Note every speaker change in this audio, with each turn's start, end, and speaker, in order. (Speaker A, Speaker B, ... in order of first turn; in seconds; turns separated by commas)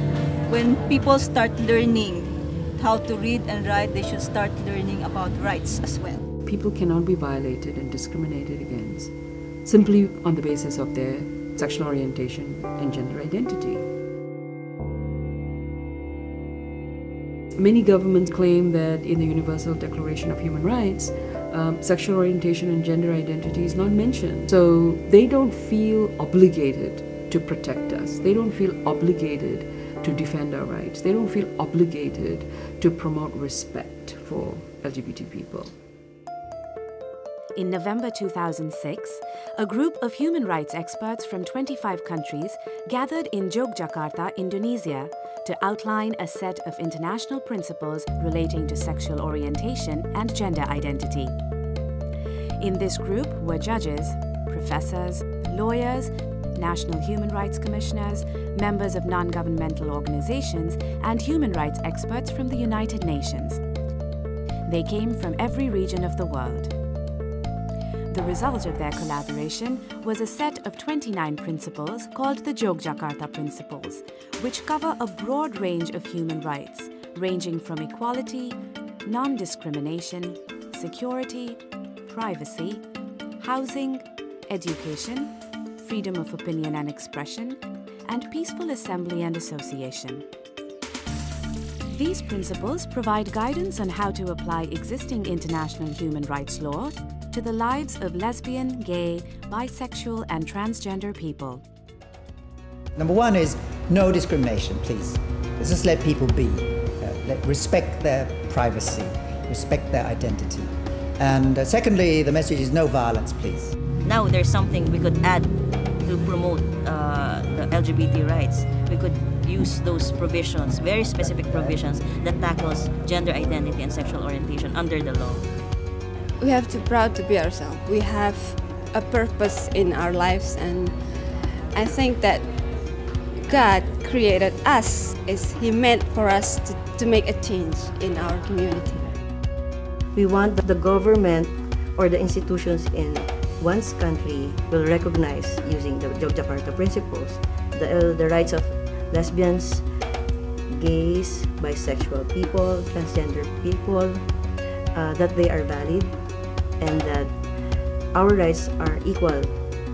Speaker A: 0.5-6.2, Speaker B: 6.4-13.9, Speaker B: 17.5-35.8, Speaker C: 37.5-51.3, Speaker C: 52.6-63.6, Speaker C: 64.7-66.7, Speaker C: 68.1-82.8, Speaker C: 83.4-90.2, Speaker C: 91.8-101.6, Speaker D: 103.0-113.8, Speaker E: 114.0-115.5, Speaker E: 116.0-125.5, Speaker F: 126.4-132.7, Speaker F: 133.4-139.1, Speaker G: 140.2-149.8, Speaker G: 150.7-154.2, Speaker G: 154.9-156.1, Speaker G: 156.8-157.3, Speaker G: 158.1-159.5